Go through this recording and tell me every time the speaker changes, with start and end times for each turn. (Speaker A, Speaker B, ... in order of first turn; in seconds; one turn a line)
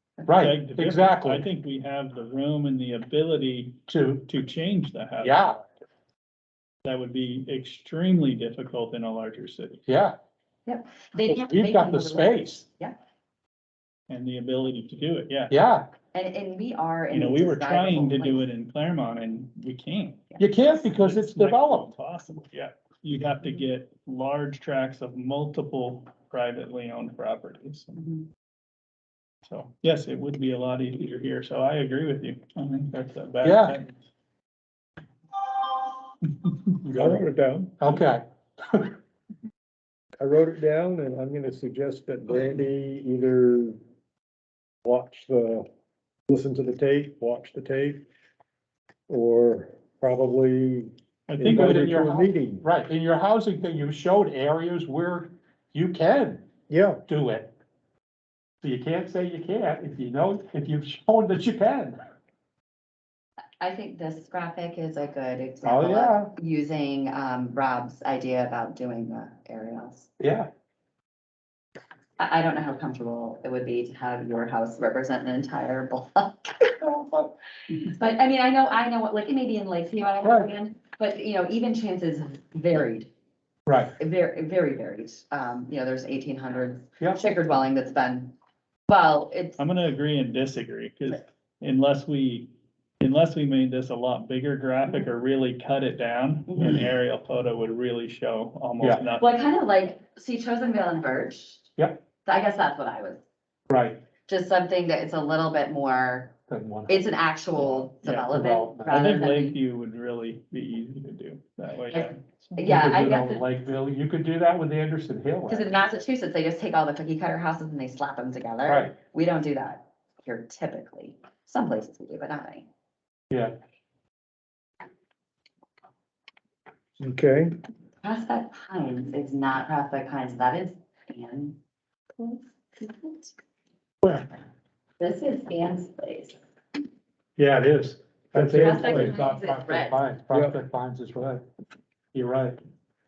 Speaker A: 0.3-1.5
Speaker B: 0.3-5.6
Speaker A: 3.9-4.2
Speaker A: 5.2-5.6
Speaker B: 6.8-9.8
Speaker A: 9.9-10.2
Speaker C: 10.7-12.9
Speaker A: 11.3-12.7
Speaker B: 14.1-15.5
Speaker A: 15.5-15.9
Speaker C: 16.1-18.4
Speaker B: 17.1-20.3
Speaker C: 20.3-20.8
Speaker A: 20.4-21.9
Speaker B: 20.9-28.0
Speaker C: 28.0-28.3
Speaker B: 29.5-33.9
Speaker A: 33.4-33.8
Speaker A: 36.9-37.2
Speaker D: 36.9-37.8
Speaker A: 37.8-38.9
Speaker D: 40.2-43.8
Speaker D: 44.8-45.7
Speaker D: 46.3-48.0
Speaker D: 49.1-52.6
Speaker B: 51.3-51.9
Speaker A: 51.4-56.5
Speaker D: 56.7-57.0
Speaker A: 57.1-57.5
Speaker A: 58.6-62.0
Speaker C: 63.6-70.1
Speaker A: 65.6-66.3
Speaker A: 70.2-70.5
Speaker C: 72.2-76.8
Speaker A: 76.8-77.3
Speaker C: 77.8-83.1
Speaker A: 80.2-80.5
Speaker A: 83.7-84.0
Speaker C: 84.0-88.3
Speaker C: 88.9-89.6
Speaker B: 89.6-99.3
Speaker C: 99.2-101.7
Speaker A: 101.8-102.0
Speaker C: 102.2-103.2
Speaker A: 103.7-104.0
Speaker C: 104.3-106.3
Speaker A: 106.5-109.0
Speaker C: 106.9-109.6
Speaker B: 108.9-112.6
Speaker C: 111.9-113.4
Speaker A: 112.6-115.7
Speaker C: 115.5-122.7
Speaker A: 118.7-119.0
Speaker D: 127.0-127.5
Speaker C: 128.0-131.6
Speaker C: 132.2-133.3
Speaker A: 134.0-134.3
Speaker C: 135.0-136.4
Speaker A: 137.4-141.4
Speaker D: 138.3-139.2
Speaker C: 138.5-140.0
Speaker D: 140.3-140.5
Speaker A: 142.1-142.6